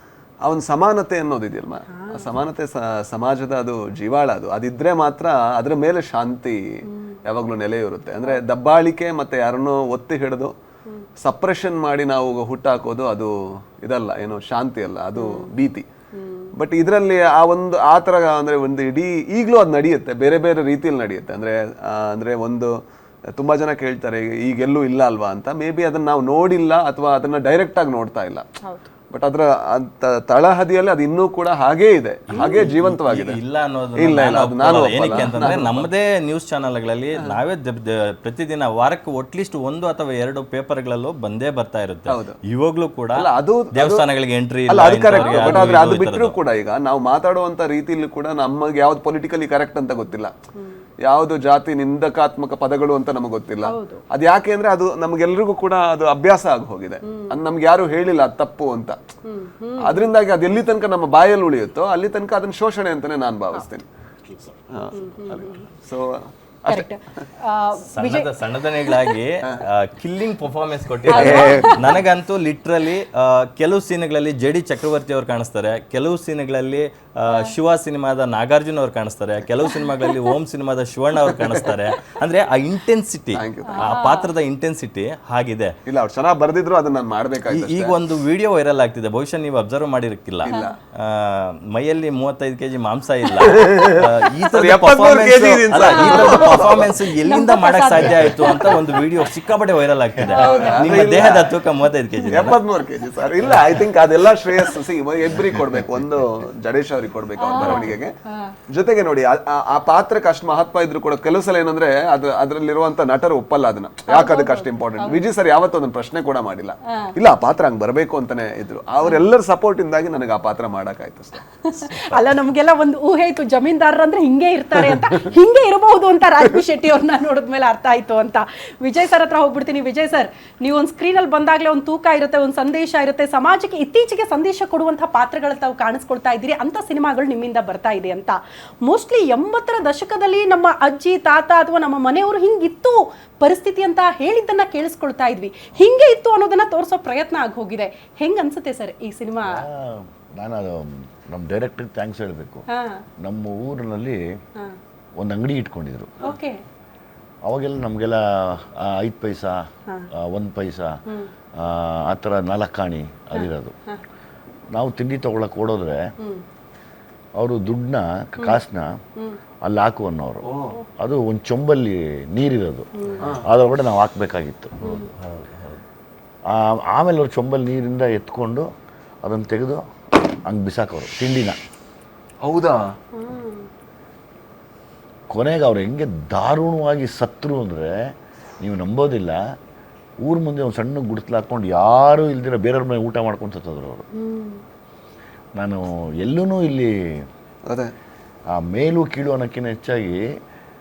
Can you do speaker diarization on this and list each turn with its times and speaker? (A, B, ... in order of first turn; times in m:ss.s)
0:00.4-0:10.5 A
0:01.9-0:02.3 B
0:06.9-0:07.2 B
0:11.2-0:15.9 A
0:15.2-0:15.5 B
0:16.1-0:16.5 B
0:16.6-0:22.7 A
0:23.3-0:28.4 A
0:29.1-0:33.4 A
0:32.3-0:46.4 C
0:32.4-0:32.7 B
0:34.0-0:35.8 A
0:35.0-0:35.4 B
0:42.1-0:42.4 A
0:43.1-0:44.0 A
0:44.7-0:50.3 A
0:45.2-0:45.8 B
0:50.6-0:50.8 B
0:51.0-0:59.0 A
0:53.6-0:54.0 B
0:57.0-0:57.4 B
0:59.2-1:00.1 B
0:59.8-1:03.8 A
1:04.7-1:06.9 A
1:05.0-1:05.6 B
1:06.7-1:09.2 B
1:07.9-1:25.7 C
1:11.1-1:11.7 A
1:11.1-1:12.0 B
1:23.3-1:24.0 A
1:23.7-1:24.3 B
1:25.8-1:28.0 A
1:27.5-1:42.6 C
1:30.4-1:30.7 A
1:33.4-1:36.9 A
1:36.0-1:36.4 B
1:37.2-1:38.9 B
1:40.2-1:41.2 B
1:40.3-1:41.5 A
1:42.3-1:48.1 A
1:47.4-1:48.5 B
1:48.7-2:01.4 A
1:54.1-1:55.2 B
1:56.8-1:57.1 B
2:01.6-2:29.6 B
2:29.4-2:32.6 D
2:32.7-2:33.0 B
2:33.2-2:34.2 D
2:35.2-2:36.2 D
2:36.2-2:36.6 B
2:37.4-2:39.6 D
2:40.2-2:41.0 D
2:41.6-2:43.7 D
2:43.3-2:44.0 B
2:44.7-2:46.0 D
2:47.4-2:49.0 D
2:49.6-2:54.8 D
2:50.4-2:50.8 A
2:52.9-2:53.4 B
2:54.8-2:55.1 B
2:54.8-2:55.8 C
2:56.5-2:58.7 D
2:59.2-2:59.8 D
3:00.4-3:01.6 D
3:02.4-3:02.9 A
3:03.1-3:03.7 B
3:05.3-3:07.9 D
3:08.6-3:09.4 D
3:10.2-3:14.0 D
3:14.1-3:14.6 B
3:15.6-3:17.2 D
3:17.6-3:17.9 A
3:18.5-3:20.2 D